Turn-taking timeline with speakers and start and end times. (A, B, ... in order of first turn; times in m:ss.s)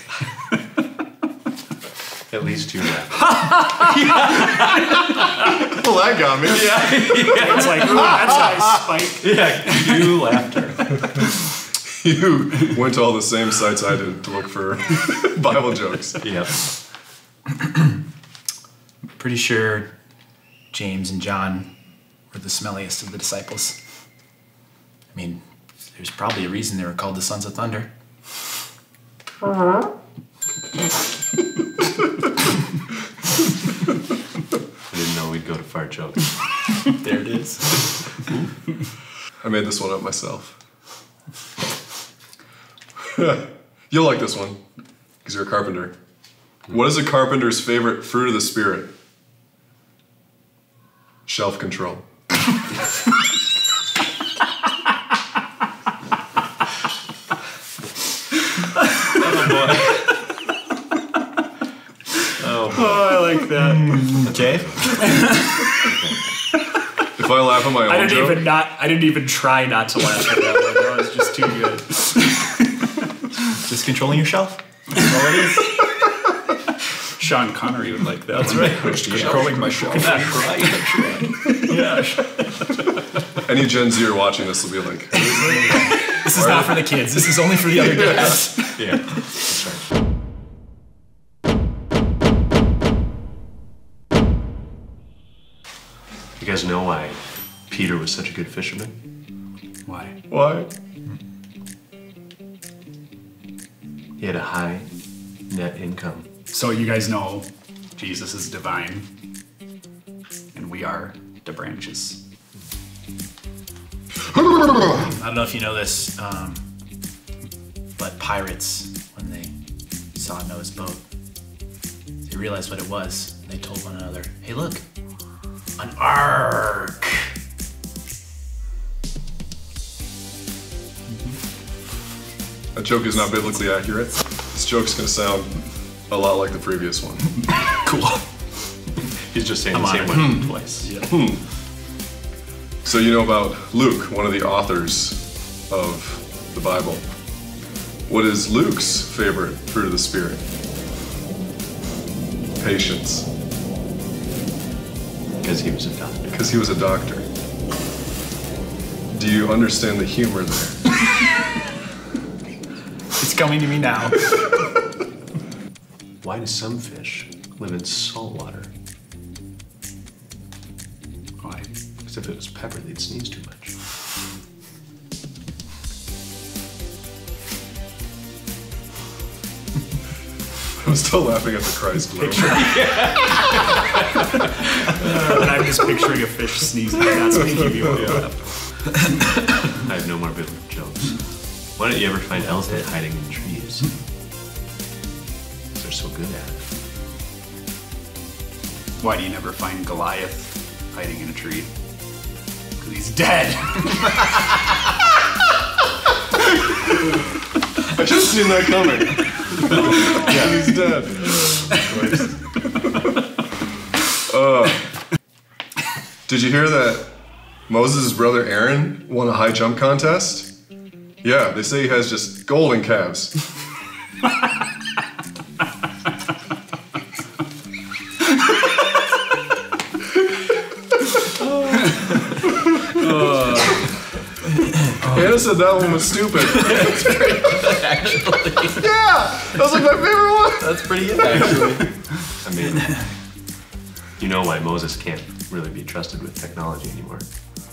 0:02.3-0:04.9 A
0:03.3-0:04.6 B
0:05.6-0:08.2 C
0:06.5-0:11.0 A
0:07.3-0:09.3 B
0:11.9-0:16.3 C
0:16.2-0:16.6 A
0:19.2-0:19.9 D
0:20.7-0:21.7 D
0:22.3-0:23.8 D
0:25.1-0:27.9 D
0:34.9-0:36.3 A
0:37.0-0:38.0 D
0:39.4-0:40.6 C
0:43.0-0:44.6 C
0:45.2-0:45.9 C
0:46.7-0:48.9 C
0:51.2-0:52.0 C
0:59.1-1:00.2 A
1:02.4-1:03.3 A
1:02.7-1:04.1 B
1:03.6-1:05.4 D
1:04.4-1:05.0 A
1:05.8-1:06.2 A
1:07.2-1:08.4 C
1:07.8-1:12.9 B
1:13.6-1:15.6 D
1:17.0-1:22.4 B
1:18.4-1:19.6 D
1:18.4-1:21.5 A
1:21.6-1:21.9 D
1:23.4-1:26.8 C
1:25.6-1:28.8 D
1:25.7-1:28.4 B
1:28.8-1:29.8 A
1:36.4-1:39.0 A
1:39.8-1:40.2 B
1:40.3-1:40.7 C
1:44.2-1:44.9 A
1:45.5-1:46.3 A
1:46.5-1:49.1 B
1:50.5-1:52.2 B
1:54.9-1:56.6 D
1:58.0-1:59.5 D
2:00.1-2:01.0 D
2:02.2-2:04.8 D
2:05.8-2:07.3 D
2:12.7-2:17.4 C
2:17.4-2:18.2 D
2:19.0-2:20.9 A
2:19.7-2:20.9 D
2:20.1-2:20.5 C
2:20.8-2:21.1 B
2:21.0-2:21.4 C
2:22.8-2:27.1 C
2:28.1-2:30.4 C
2:32.6-2:33.3 C
2:35.4-2:36.4 A
2:36.3-2:37.2 C
2:39.1-2:40.8 C
2:43.2-2:44.2 D
2:46.2-2:48.7 A
2:51.4-2:51.7 B
2:52.0-2:53.8 A
3:00.8-3:02.7 C
3:02.1-3:03.6 B
3:04.8-3:08.5 B
3:07.9-3:08.2 A
3:09.8-3:13.9 A
3:15.8-3:16.6 A
3:19.0-3:21.7 B
3:22.8-3:24.6 B
3:27.8-3:32.9 C
3:30.0-3:30.5 B
3:34.2-3:34.9 C
3:36.3-3:37.1 C
3:37.7-3:40.5 C
3:41.2-3:43.3 C
3:51.4-3:52.2 A
3:53.0-3:53.7 C
3:55.0-3:57.7 C
3:56.6-3:58.8 D
3:58.8-4:01.7 C
4:00.6-4:01.9 D
4:02.4-4:03.1 A
4:04.2-4:07.2 A